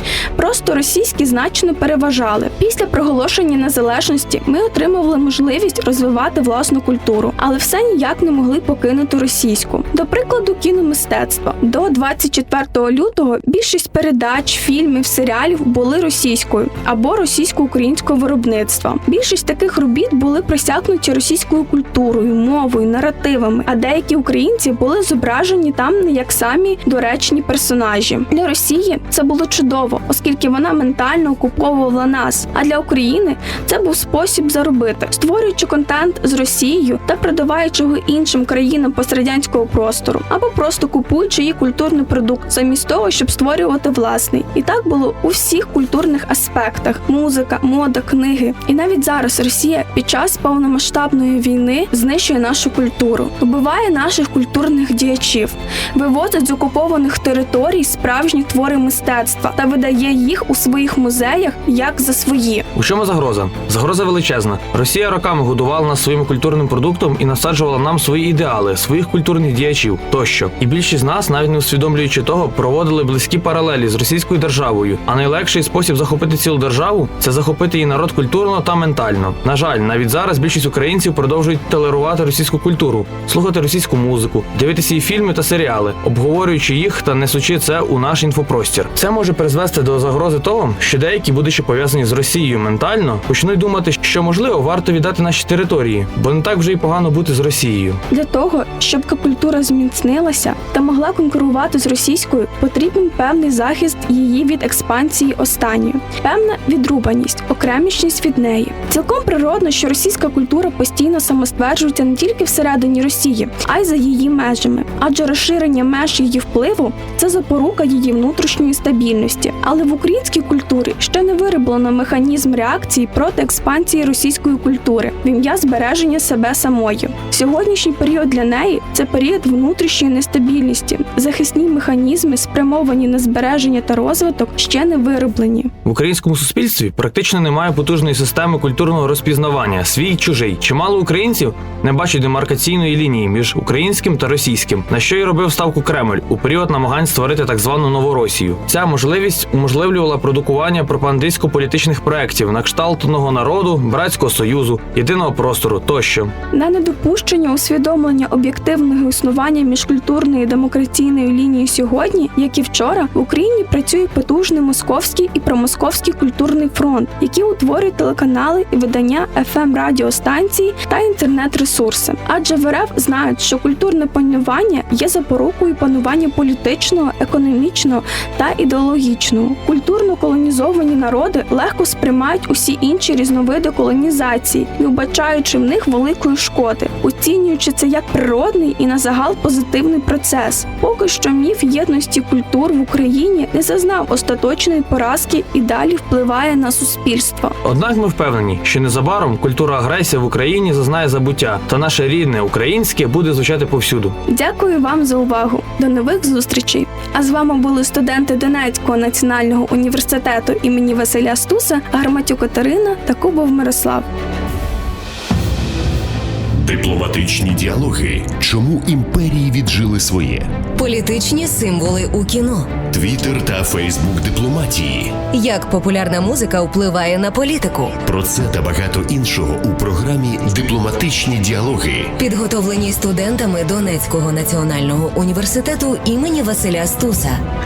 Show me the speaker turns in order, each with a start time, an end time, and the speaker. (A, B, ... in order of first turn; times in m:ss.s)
0:00.3-1:02.7 A
1:02.7-1:38.0 B
1:38.1-2:15.7 A
2:15.8-2:36.3 B
2:36.5-3:17.6 A
3:17.6-3:24.2 B
3:24.3-3:34.1 A
3:36.6-3:40.5 C
3:40.8-3:42.7 D
3:42.9-3:45.2 C
3:45.3-3:48.0 D
3:48.0-3:52.1 C
3:52.2-3:57.4 D